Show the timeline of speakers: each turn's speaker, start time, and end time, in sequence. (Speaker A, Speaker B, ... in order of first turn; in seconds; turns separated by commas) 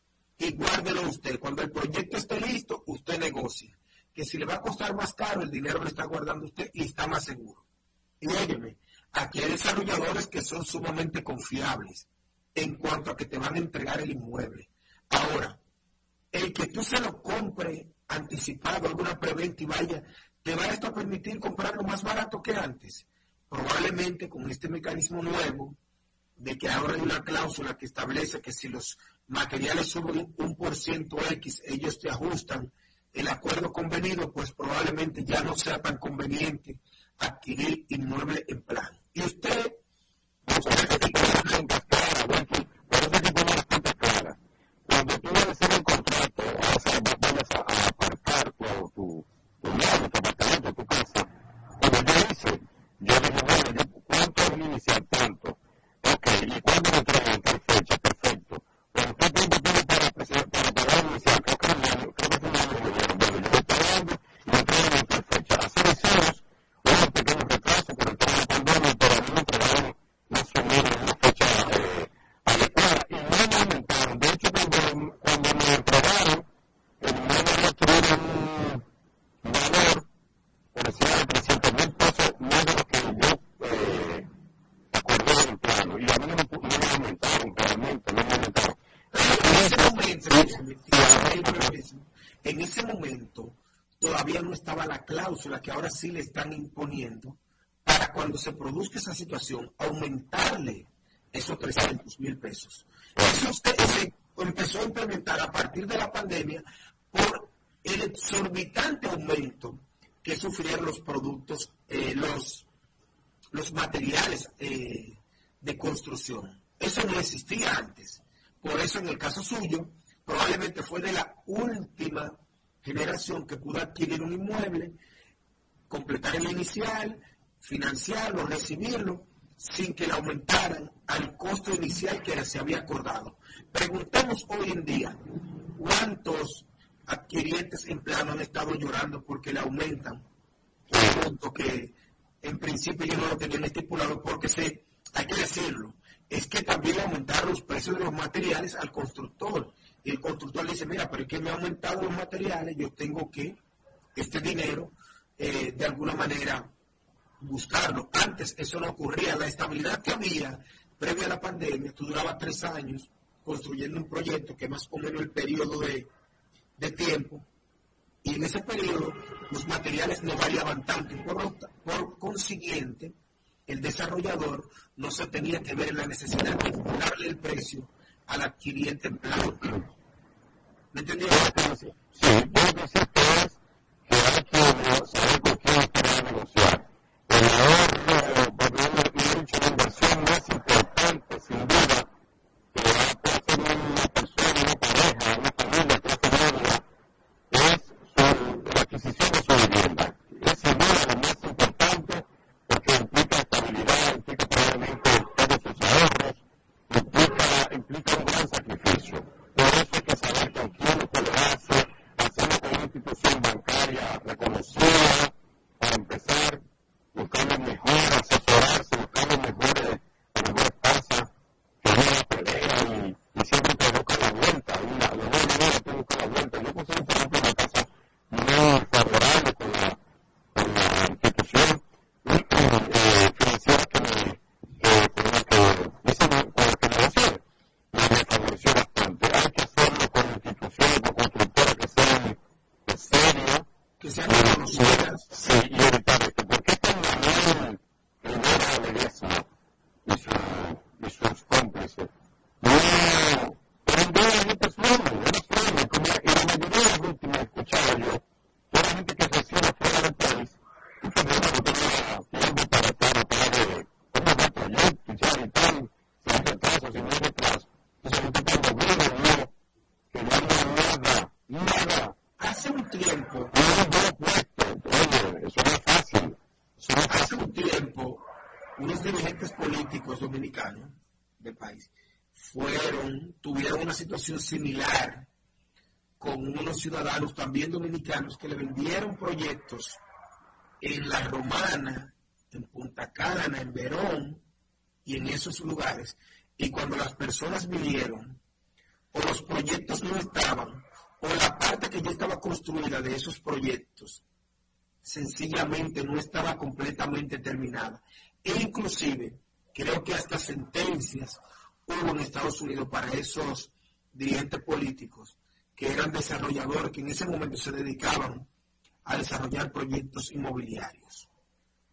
Speaker A: 0.4-7.6, Speaker A: 8.2-15.6, Speaker A: 16.3-25.8, Speaker A: 26.4-39.8, Speaker B: 40.5-76.5, Speaker A: 40.5-41.6, Speaker B: 77.0-78.8, Speaker B: 79.4-80.1, Speaker B: 80.7-84.3, Speaker B: 84.9-91.7, Speaker A: 89.1-112.7, Speaker A: 113.5-125.0, Speaker A: 125.9-135.2, Speaker A: 135.7-140.2, Speaker B: 140.9-141.3, Speaker A: 140.9-153.6, Speaker A: 154.2-156.7, Speaker A: 157.4-166.1, Speaker A: 166.8-167.4, Speaker A: 168.2-173.1, Speaker A: 173.7-179.8, Speaker A: 180.9-181.5, Speaker B: 181.3-192.1, Speaker B: 192.7-196.8, Speaker B: 197.5-221.3, Speaker B: 221.8-230.0, Speaker B: 230.5-243.7, Speaker A: 244.0-245.3, Speaker B: 244.3-249.5, Speaker B: 250.1-269.5, Speaker B: 270.1-272.2, Speaker A: 272.4-273.5, Speaker B: 273.5-277.4, Speaker A: 277.1-278.2, Speaker A: 278.8-285.3, Speaker A: 286.2-290.0, Speaker A: 290.8-294.4, Speaker A: 295.1-298.4, Speaker A: 299.1-304.2, Speaker A: 305.0-318.5, Speaker A: 319.0-321.3